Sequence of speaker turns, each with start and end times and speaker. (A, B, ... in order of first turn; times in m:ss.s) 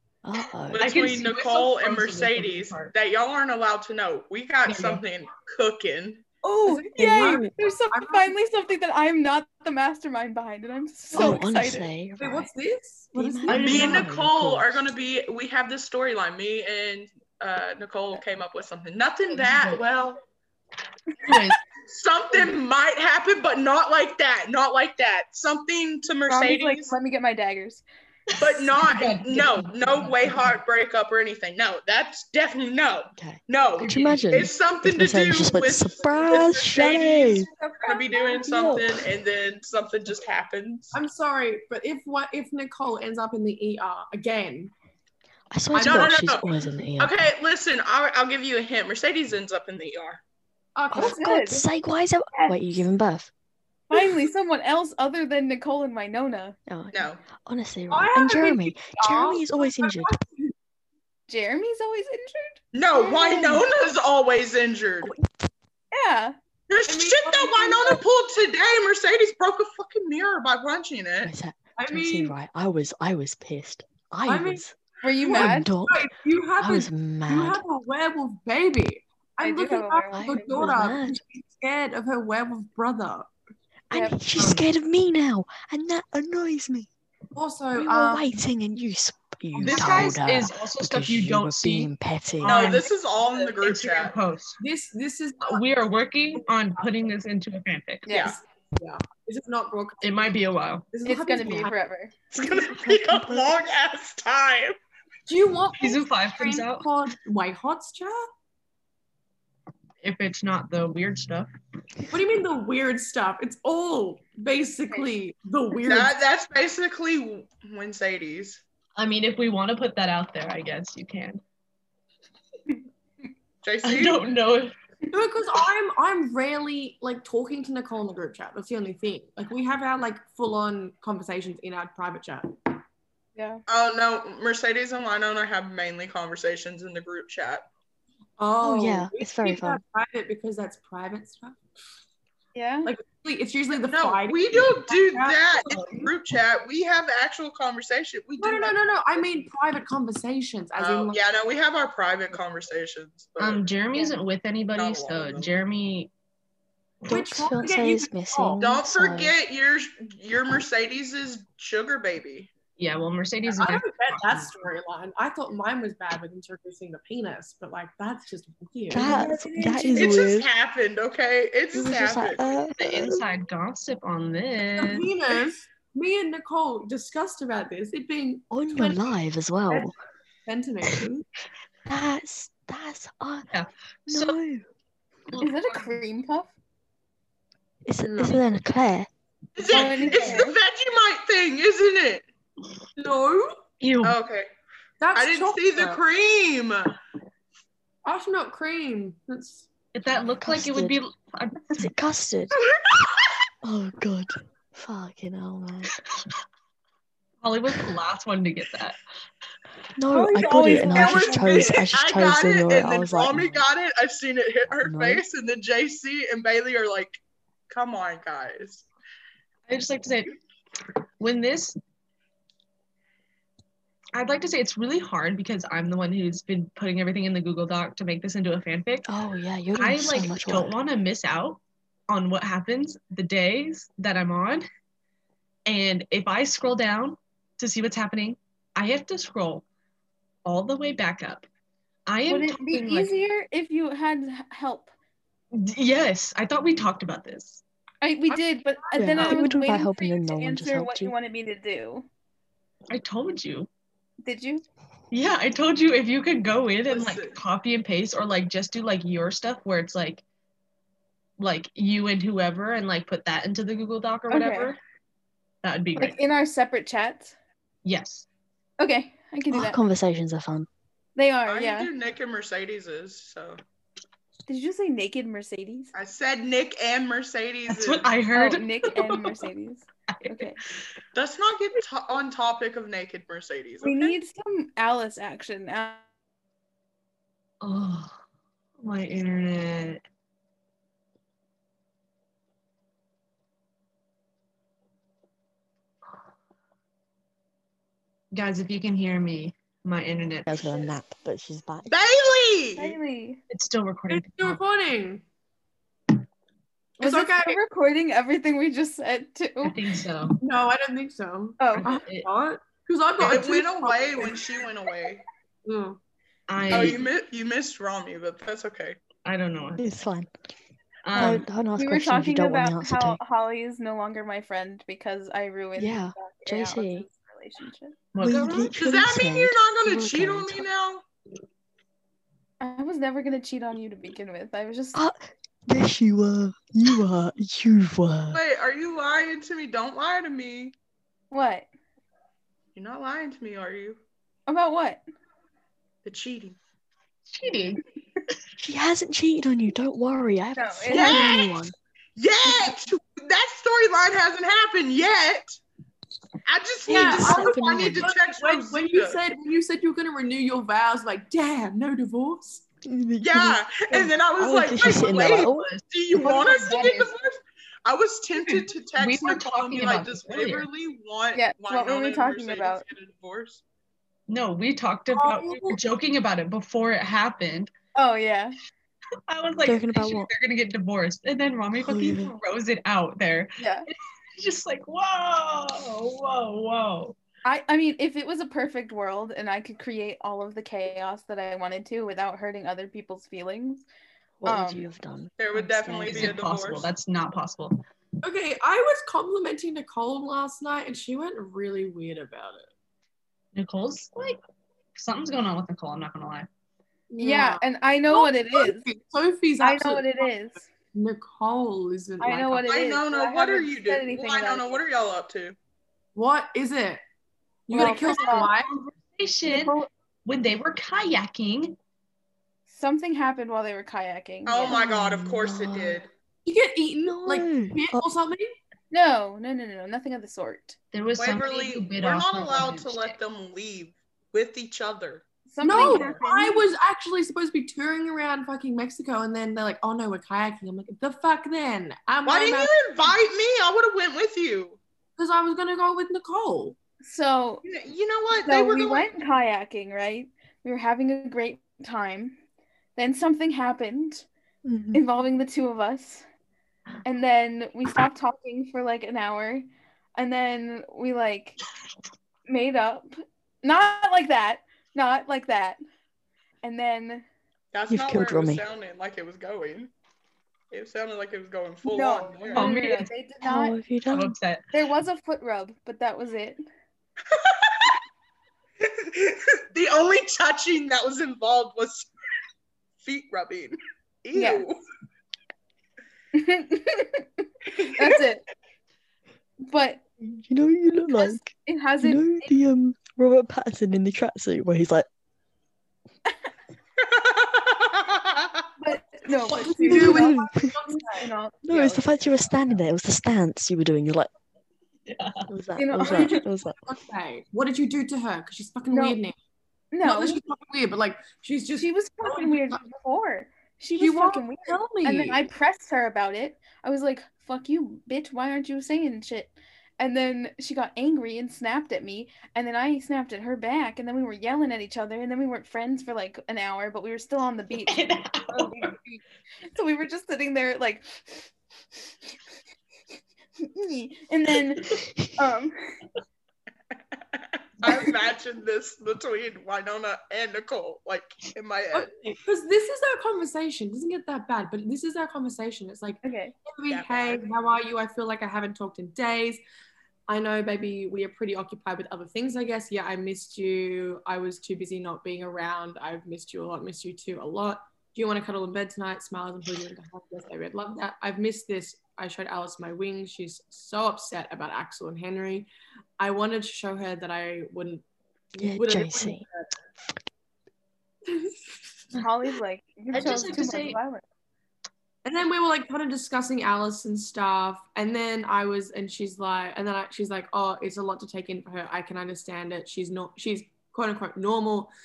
0:00.2-0:00.9 A
0:00.7-0:06.2 B
0:00.8-0:02.9 C
0:04.7-0:05.0 C
0:06.4-0:11.9 D
0:06.7-0:08.4 E
0:07.0-0:07.5 A
0:11.1-0:12.5 A
0:11.1-0:11.4 E
0:12.2-0:14.1 E
0:13.1-0:14.8 A
0:13.5-0:14.1 C
0:13.5-0:20.2 B
0:19.3-0:19.8 C
0:21.2-0:21.6 C
0:21.9-0:27.0 B
0:26.3-0:27.8 D
0:28.3-0:30.5 C
0:28.4-0:41.0 B
0:33.2-0:37.5 A
0:33.8-0:34.5 C
0:37.6-0:38.5 E
0:38.4-0:39.0 A
0:40.9-0:44.7 E
0:45.5-0:47.1 A
0:45.7-0:46.3 E
0:45.8-0:50.2 B
0:50.8-0:51.3 E
0:50.9-0:51.6 D
0:50.9-0:53.3 A
0:52.3-0:52.6 D
0:53.9-0:56.6 D
0:56.7-1:00.1 A
0:56.9-0:57.2 B
0:57.9-1:00.5 E
1:01.3-1:03.6 D
1:02.7-1:05.1 B
1:05.0-1:05.3 A
1:05.9-1:06.4 D
1:06.7-1:11.3 B
1:06.9-1:08.0 E
1:11.2-1:14.8 A
1:11.8-1:12.4 E
1:14.3-1:14.6 E
1:15.0-1:15.7 D
1:15.2-1:23.3 E
1:15.3-1:17.6 A
1:19.4-1:20.8 D
1:20.1-1:21.2 A
1:23.9-1:26.9 A
1:23.9-1:24.2 D
1:24.4-1:24.7 C
1:27.4-1:28.2 E
1:27.8-1:32.8 A
1:29.6-1:31.9 C
1:29.6-1:30.2 E
1:32.4-1:32.9 C
1:32.4-1:34.2 B
1:33.6-1:34.6 C
1:34.6-1:35.6 E
1:35.4-1:38.1 C
1:38.1-1:38.4 D
1:38.1-1:40.2 E
1:40.0-1:40.9 C
1:40.9-1:41.7 E
1:41.0-1:42.1 D
1:42.3-1:44.8 B
1:42.3-1:43.5 A
1:45.3-1:48.2 E
1:45.8-1:46.9 C
1:50.0-1:51.5 C
1:52.1-1:56.1 E
1:55.8-1:58.6 B
1:59.0-2:01.4 C
2:03.6-2:04.2 B
2:03.8-2:04.7 C
2:05.1-2:12.5 E
2:13.4-2:13.6 D
2:13.7-2:17.7 B
2:18.4-2:21.6 E
2:18.6-2:19.8 A
2:22.6-2:22.9 D
2:22.8-2:26.1 E
2:23.8-2:29.2 B
2:28.4-2:31.2 E
2:30.8-2:33.7 B
2:33.4-2:36.1 C
2:34.8-2:35.5 B
2:37.1-2:38.6 E
2:37.1-2:39.4 A
2:38.6-2:42.5 B
2:42.8-2:44.5 C
2:43.5-2:50.4 E
2:48.9-2:50.5 A
2:49.9-2:52.5 B
2:51.7-2:53.2 A
2:52.8-2:55.1 C
2:54.8-2:59.2 E
2:58.5-2:59.9 A
3:00.5-3:01.3 E
3:01.9-3:03.5 A
3:03.5-3:04.4 C
3:04.1-3:04.6 A
3:05.4-3:06.5 D
3:07.9-3:09.1 A
3:08.1-3:08.4 E
3:09.6-3:12.2 B
3:09.7-3:10.6 D
3:09.7-3:10.4 E
3:13.0-3:13.6 E
3:13.8-3:14.2 C
3:14.0-3:14.5 B
3:15.0-3:16.0 E
3:15.1-3:17.0 B
3:18.0-3:19.7 E
3:19.9-3:21.9 C
3:20.4-3:21.0 A
3:21.8-3:22.6 A
3:23.6-3:25.9 A
3:27.4-3:29.0 C
3:30.0-3:33.6 A
3:30.1-3:31.8 D
3:30.6-3:38.9 B
3:34.8-3:35.2 A
3:39.7-3:40.4 C
3:41.2-3:41.8 C
3:44.1-3:49.1 C
3:49.1-3:50.7 A
3:49.8-3:54.6 C
3:55.7-3:59.6 C
4:00.4-4:01.5 C
4:02.1-4:03.1 C
4:02.3-4:04.9 D
4:05.5-4:07.6 C
4:08.0-4:12.1 D
4:08.3-4:09.5 E
4:09.0-4:11.1 A
4:12.9-4:13.7 C
4:14.2-4:14.6 D
4:15.1-4:20.2 C
4:16.9-4:17.4 B
4:21.4-4:24.8 C
4:24.3-4:24.7 D
4:25.6-4:26.2 C
4:26.0-4:27.4 D
4:27.8-4:28.3 C
4:28.8-4:29.8 D
4:29.5-4:30.7 A
4:31.2-4:31.9 D
4:31.5-4:33.6 B
4:34.5-4:35.9 D
4:35.9-4:38.1 B
4:37.7-4:39.4 C
4:38.3-4:40.6 D
4:40.1-4:40.5 C
4:41.1-4:44.2 B
4:43.8-4:46.0 D
4:47.6-4:48.2 C
4:48.8-4:50.0 C
4:58.3-5:00.8 C
5:00.5-5:01.9 A
5:01.9-5:03.0 B
5:02.8-5:03.4 D
5:03.5-5:04.6 C
5:04.1-5:05.2 E
5:07.0-5:07.6 E
5:07.0-5:09.8 D
5:09.6-5:10.4 C
5:10.4-5:14.6 E
5:11.6-5:12.0 D
5:11.8-5:12.3 C
5:13.2-5:15.2 B
5:15.7-5:16.0 E
5:16.5-5:17.1 C
5:16.7-5:19.0 B
5:19.2-5:19.9 C
5:19.8-5:20.3 A
5:21.1-5:21.5 C
5:21.1-5:23.2 A
5:21.2-5:28.0 D
5:25.8-5:27.1 A
5:28.1-5:28.7 C
5:28.2-5:30.7 A
5:28.7-5:31.0 B
5:32.6-5:35.0 D
5:34.9-5:38.4 A
5:38.3-5:40.7 B
5:41.3-5:41.7 D
5:42.8-5:44.0 B
5:44.5-5:45.0 D
5:46.0-5:46.6 B
5:47.3-5:47.8 C
5:48.6-5:51.7 A
5:50.6-5:51.4 D
5:50.9-5:51.6 B
5:52.2-5:55.6 B
5:56.4-5:59.2 B
5:56.9-5:58.1 A
5:56.9-6:02.6 E
6:02.8-6:05.7 A
6:03.2-6:13.6 B
6:05.2-6:05.8 C
6:06.2-6:07.0 E
6:06.5-6:07.0 D
6:08.4-6:10.7 C
6:11.3-6:12.8 D
6:14.3-6:17.7 C
6:15.1-6:15.8 E
6:18.0-6:18.6 D
6:19.3-6:27.2 C
6:19.6-6:20.3 A
6:21.8-6:22.4 A
6:23.6-6:23.9 D
6:27.4-6:33.8 D
6:34.4-6:36.4 A
6:34.4-6:34.9 D
6:35.4-6:36.9 B
6:36.1-6:37.8 C
6:38.2-6:42.7 E
6:43.6-6:44.4 C
6:45.0-6:46.5 C
6:47.1-6:50.3 E
6:47.2-6:48.9 D
6:49.6-6:50.6 D
6:50.9-6:52.6 E
6:52.2-6:54.8 D
6:52.6-6:55.6 B
6:56.1-6:57.0 E
6:57.7-6:58.7 E
6:57.7-6:58.5 D
6:57.8-7:01.8 C
6:59.5-6:59.9 D
7:02.7-7:04.8 D
7:04.5-7:06.1 B
7:04.7-7:06.0 A
7:06.5-7:08.6 E
7:07.0-7:08.0 A
7:08.9-7:10.8 D
7:10.9-7:13.2 C
7:11.2-7:15.2 B
7:15.5-7:16.6 D
7:15.6-7:22.8 E
7:15.8-7:16.2 B
7:22.2-7:24.8 B
7:25.2-7:26.8 E
7:27.0-7:27.6 D
7:27.6-7:29.1 B
7:28.4-7:32.4 D
7:33.0-7:34.3 D
7:34.6-7:35.0 A
7:34.9-7:36.2 D
7:37.0-7:41.6 D
7:42.5-7:45.8 D
7:46.6-7:47.3 D
7:47.7-7:49.9 B
7:47.9-7:48.6 A
7:50.7-7:52.7 B
7:51.9-7:53.8 D
7:52.5-7:53.1 C
7:53.4-7:54.4 A
7:54.1-7:54.6 C
7:54.7-7:56.6 D
7:57.3-7:58.0 B
7:58.8-8:02.1 B
8:03.0-8:04.8 B
8:04.3-8:04.7 D
8:06.3-8:08.4 D
8:07.7-8:08.1 B
8:09.6-8:10.0 D
8:10.2-8:15.1 A
8:11.1-8:12.6 D
8:17.0-8:18.6 B
8:18.8-8:22.1 D
8:19.5-8:21.3 E
8:19.8-8:20.7 A
8:21.7-8:24.3 A
8:25.1-8:25.5 C
8:25.5-8:26.8 A
8:25.8-8:26.4 D
8:26.0-8:29.4 E
8:28.9-8:29.2 D
8:29.9-8:30.4 D
8:30.0-8:32.8 E
8:31.8-8:51.1 D
8:34.0-8:35.4 E
8:47.8-8:48.9 C
8:53.6-8:55.8 D
8:57.8-9:02.1 B
9:01.9-9:09.6 E
9:06.2-9:06.6 D
9:06.9-9:07.5 B
9:10.3-9:29.7 E
9:28.6-9:29.4 A
9:31.3-9:31.8 E
9:32.2-9:34.2 D
9:33.1-9:34.0 C
9:35.2-9:44.9 E